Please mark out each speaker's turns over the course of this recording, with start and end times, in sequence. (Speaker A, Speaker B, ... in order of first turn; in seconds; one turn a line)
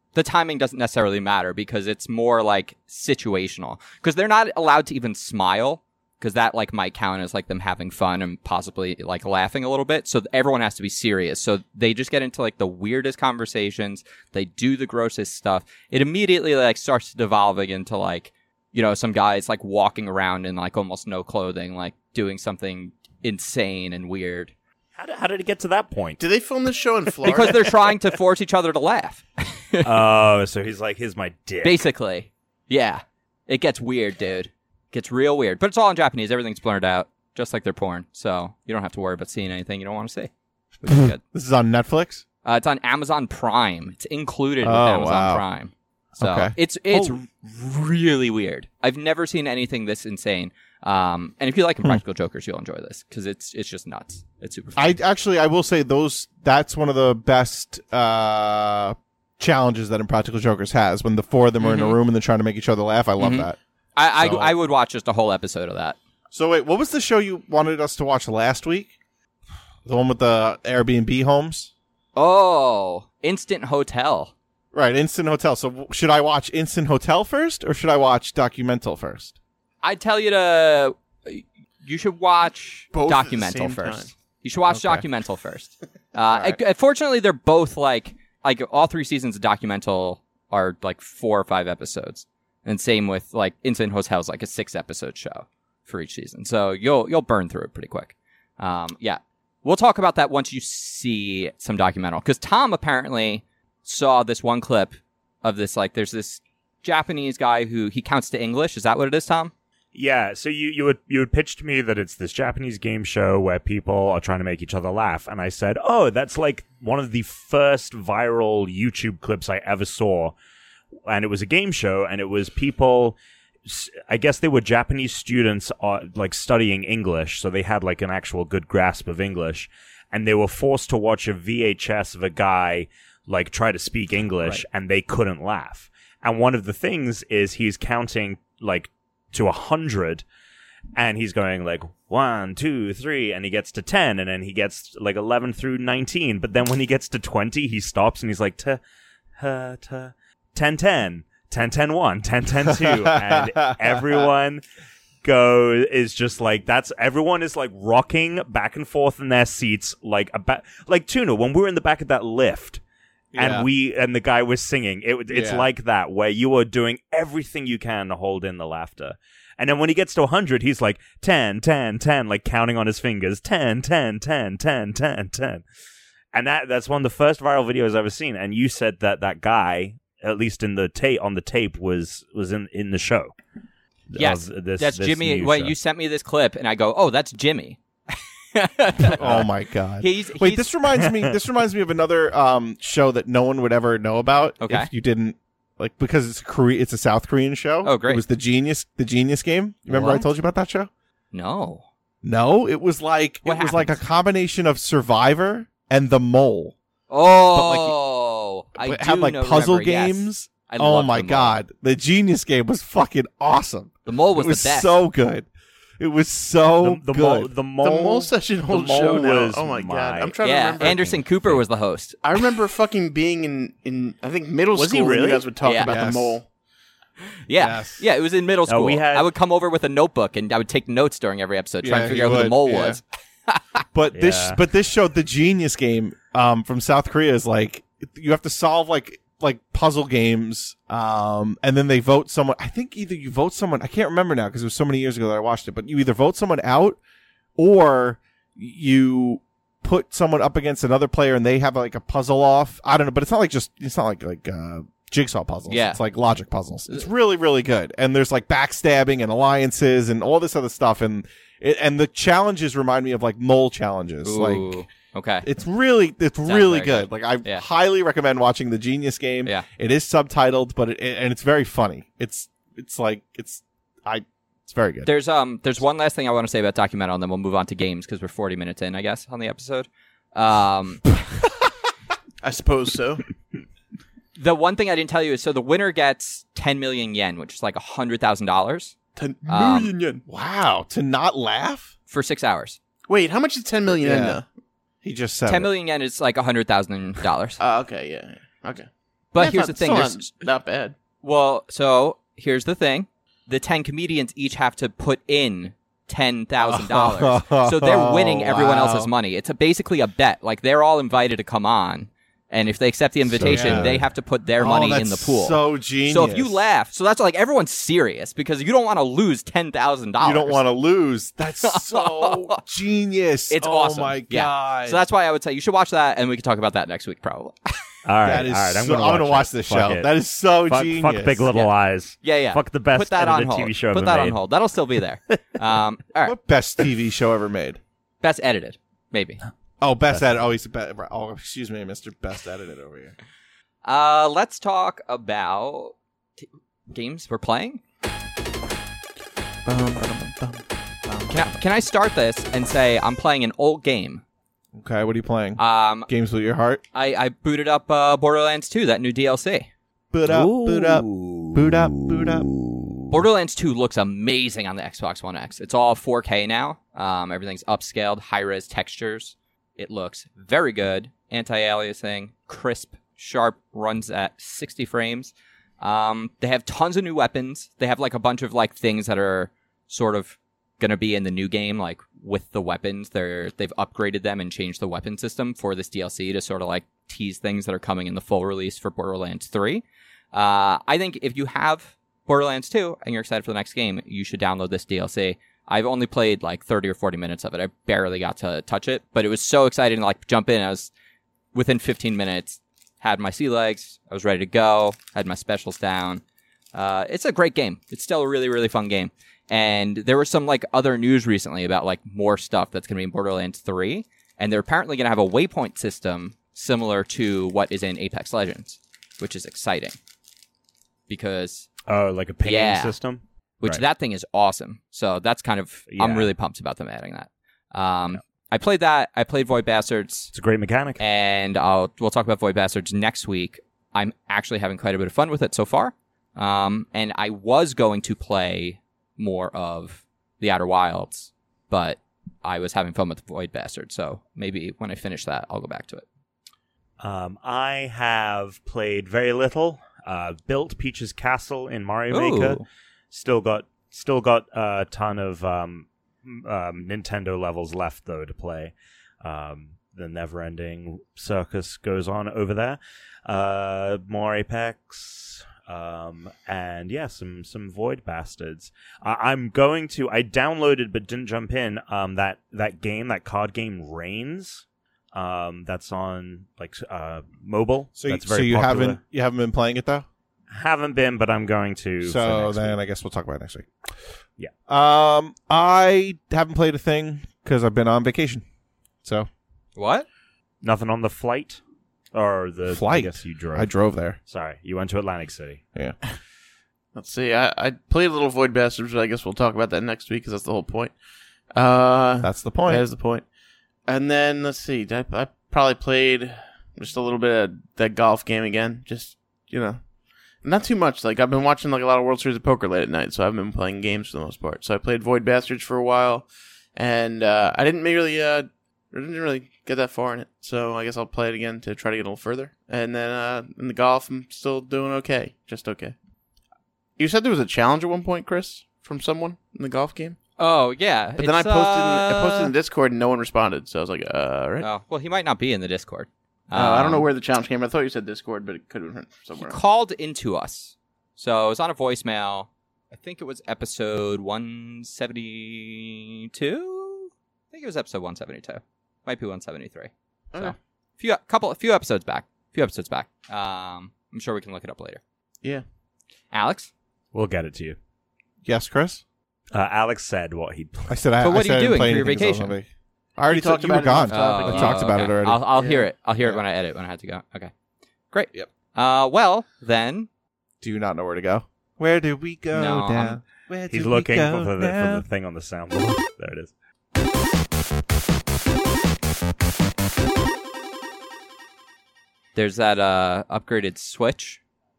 Speaker A: 0.1-24.5
Speaker B: 25.0-26.2
Speaker C: 26.2-27.7
Speaker A: 27.2-30.0
Speaker B: 29.8-31.8
Speaker A: 31.6-40.3
Speaker A: 40.8-41.2
Speaker D: 40.9-42.2
Speaker A: 42.4-55.0
Speaker D: 44.6-45.4
Speaker D: 46.2-47.2
Speaker D: 54.8-63.6
Speaker A: 61.6-62.0
Speaker A: 63.2-66.0
Speaker D: 64.2-64.5
Speaker D: 66.3-68.9
Speaker D: 69.8-71.7
Speaker A: 72.2-74.3
Speaker D: 74.7-79.4
Speaker A: 79.8-109.5
Speaker C: 82.9-84.1
Speaker D: 84.7-85.0
Speaker D: 86.3-86.6
Speaker B: 109.9-120.4
Speaker B: 121.1-140.2
Speaker B: 140.9-148.8
Speaker B: 149.4-154.6
Speaker D: 152.7-154.3
Speaker B: 155.2-162.8
Speaker D: 163.3-163.7
Speaker B: 163.3-175.6
Speaker D: 165.3-165.7
Speaker B: 176.3-183.3
Speaker B: 184.1-185.7
Speaker A: 184.2-190.7
Speaker D: 189.0-200.9
Speaker B: 191.0-191.3
Speaker A: 194.6-194.9
Speaker A: 197.8-198.2
Speaker A: 199.9-200.3
Speaker A: 201.3-201.8
Speaker D: 202.2-206.8
Speaker A: 203.4-204.0
Speaker A: 207.1-211.6
Speaker D: 207.5-207.9
Speaker D: 208.8-215.5
Speaker A: 214.1-215.0
Speaker D: 216.0-217.5
Speaker B: 216.8-220.4
Speaker C: 217.8-221.2
Speaker A: 220.4-222.2
Speaker C: 222.2-226.5
Speaker B: 224.7-225.5
Speaker A: 225.6-226.0
Speaker D: 225.8-226.4
Speaker A: 227.5-233.6
Speaker D: 227.6-228.0
Speaker B: 228.7-229.3
Speaker D: 231.8-233.0
Speaker D: 233.9-247.0
Speaker B: 234.1-234.6
Speaker D: 247.6-264.8
Speaker A: 255.7-256.0
Speaker A: 264.2-265.5
Speaker D: 265.4-275.1
Speaker A: 266.4-267.6
Speaker A: 275.1-281.1
Speaker C: 282.4-283.2
Speaker A: 284.4-288.9
Speaker C: 289.2-290.2
Speaker A: 289.5-289.9
Speaker D: 290.3-291.9
Speaker A: 292.1-292.8
Speaker C: 293.1-294.4
Speaker D: 293.9-294.4
Speaker D: 295.0-295.7
Speaker A: 295.5-297.6
Speaker C: 297.6-301.0
Speaker A: 299.3-300.3
Speaker A: 301.2-320.6
Speaker D: 306.6-309.1
Speaker D: 313.3-314.0
Speaker B: 313.4-314.0
Speaker D: 314.6-316.6
Speaker D: 320.2-325.0
Speaker A: 321.6-322.6
Speaker A: 323.5-327.6
Speaker B: 328.1-330.1
Speaker D: 328.2-331.5
Speaker B: 330.7-334.4
Speaker A: 332.2-336.4
Speaker D: 336.2-337.8
Speaker A: 338.2-339.4
Speaker D: 339.8-343.1
Speaker A: 343.9-347.8
Speaker C: 349.7-351.6
Speaker A: 351.3-354.2
Speaker D: 354.8-356.8
Speaker A: 355.6-356.1
Speaker A: 356.9-359.7
Speaker D: 360.1-362.5
Speaker B: 360.3-363.2
Speaker A: 363.1-400.9
Speaker A: 401.5-406.2
Speaker A: 406.7-420.0
Speaker A: 421.1-421.7
Speaker B: 421.9-423.8
Speaker A: 422.4-423.0
Speaker A: 423.6-430.3
Speaker B: 425.9-426.3
Speaker B: 430.3-431.0
Speaker A: 431.0-446.1
Speaker B: 447.0-479.0
Speaker A: 452.1-452.6
Speaker D: 478.0-480.1
Speaker B: 480.5-482.8
Speaker D: 482.0-483.7
Speaker D: 484.7-488.4
Speaker D: 489.0-489.3
Speaker A: 489.8-490.1
Speaker B: 490.6-491.6
Speaker B: 492.1-493.7
Speaker D: 492.7-494.2
Speaker B: 494.3-495.6
Speaker C: 496.9-500.9
Speaker C: 501.5-503.2
Speaker D: 502.2-502.9
Speaker C: 503.9-509.8
Speaker C: 510.4-526.0
Speaker C: 527.0-530.2
Speaker A: 530.4-532.5
Speaker C: 531.2-534.7
Speaker A: 534.6-537.1
Speaker C: 536.5-539.6
Speaker A: 539.4-555.0
Speaker A: 556.3-556.7
Speaker B: 557.1-557.8
Speaker D: 558.4-559.0
Speaker B: 559.5-561.0
Speaker D: 560.9-565.4
Speaker A: 561.2-562.6
Speaker C: 563.3-564.9
Speaker A: 564.1-567.5
Speaker C: 565.5-565.9
Speaker A: 568.1-570.1
Speaker D: 570.6-575.0
Speaker A: 572.5-573.2
Speaker B: 573.7-576.5
Speaker A: 582.4-584.4